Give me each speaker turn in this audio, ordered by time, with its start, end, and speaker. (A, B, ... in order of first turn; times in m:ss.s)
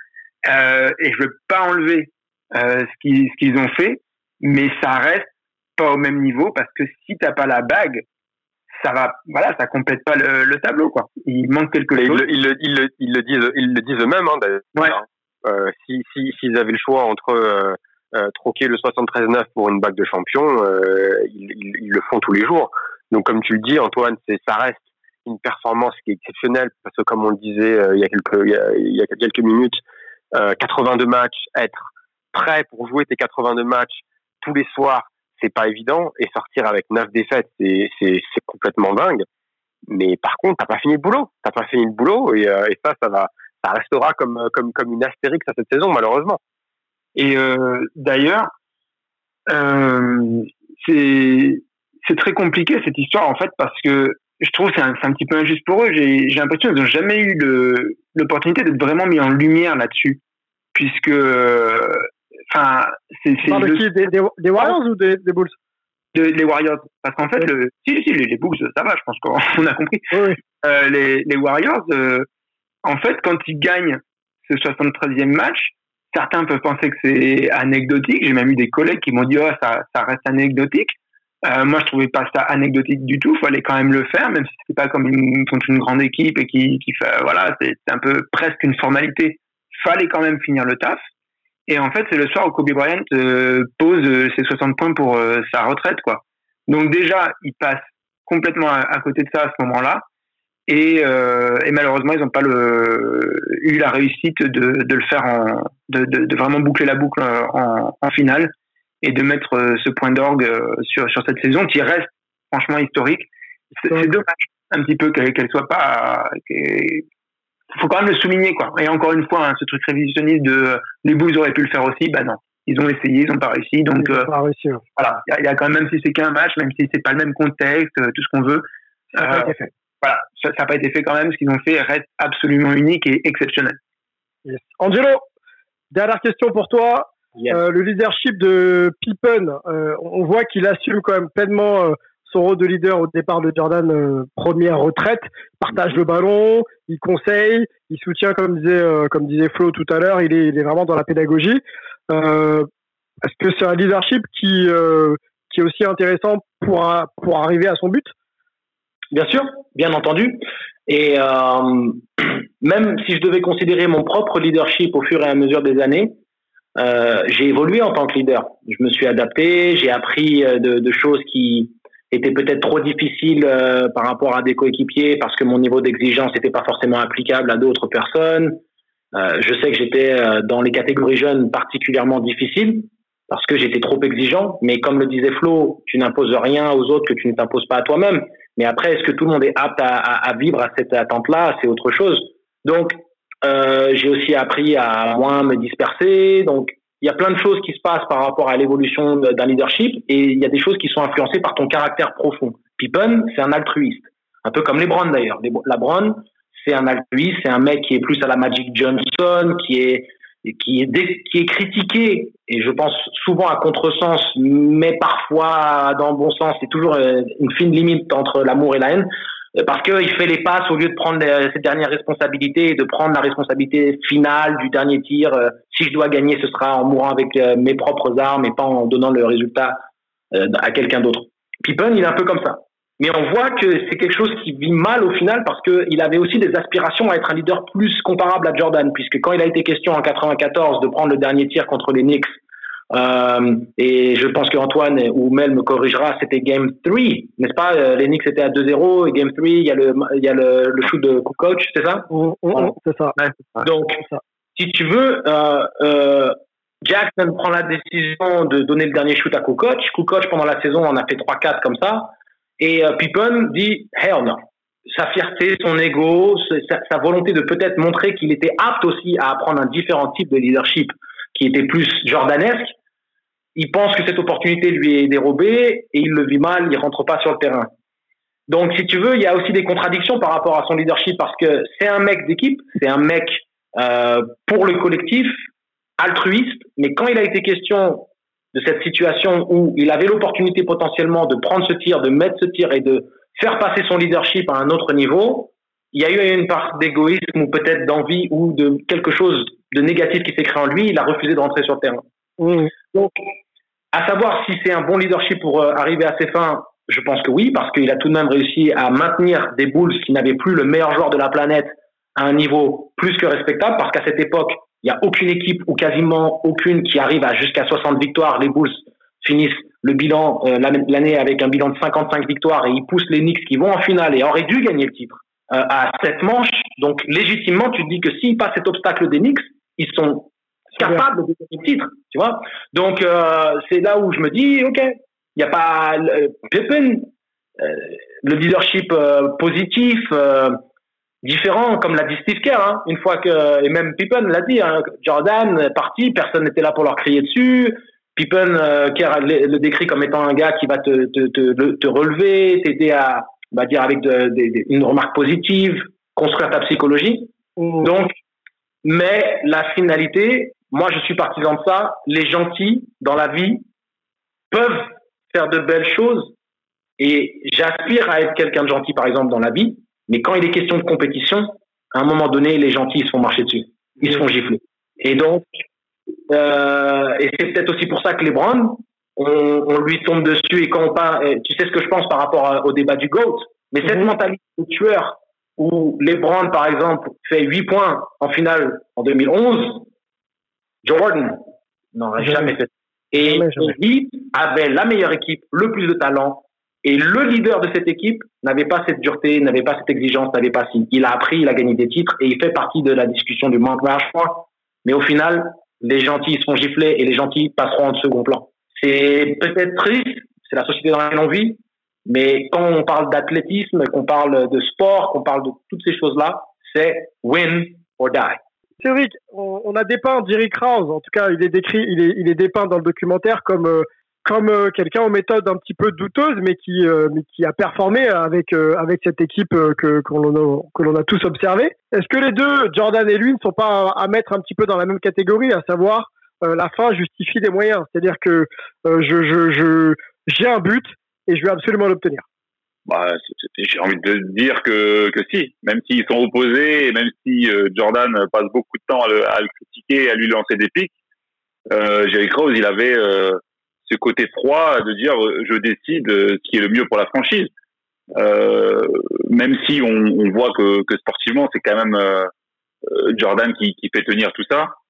0:00.4-0:08.0 A
0:08.7-0:12.2 A
0:11.9-0:29.8 B
0:30.3-0:39.2 B
0:39.9-0:46.4 B
0:47.2-0:48.5 A
0:49.5-1:00.2 A
1:00.7-1:03.8 A
1:03.4-1:05.5 C
1:06.1-1:12.3 A
1:10.1-1:10.4 C
1:12.8-1:31.0 A
1:31.7-1:40.0 A
1:40.7-1:57.0 A
1:57.7-2:04.3 A
2:04.0-2:04.8 C
2:05.0-2:13.8 A
2:09.2-2:09.7 C
2:14.4-2:15.2 C
2:15.9-2:32.7 C
2:33.2-2:38.1 C
2:39.1-2:46.2 D
2:46.8-2:58.6 D
2:59.1-3:49.8 D
3:50.3-4:02.4 D
4:02.9-4:12.7 D
4:12.1-4:13.2 C
4:13.6-4:14.0 D
4:14.6-4:32.7 D
4:33.6-4:37.7 D
4:38.5-4:45.4 D
4:46.0-5:02.0 D
5:02.4-5:02.7 C
5:02.9-5:03.3 D
5:03.9-5:40.6 D
5:41.2-5:58.2 D
5:57.6-5:57.8 C
5:58.8-6:03.6 D
6:04.5-6:06.3 D
6:07.0-6:15.6 D
6:16.3-6:29.9 D
6:30.8-6:58.4 D
6:32.2-6:32.5 C
6:33.2-6:33.7 C
6:58.8-7:22.2 C
7:22.9-7:30.9 E
7:31.7-7:37.5 E
7:38.2-7:42.3 E
7:42.9-7:44.7 E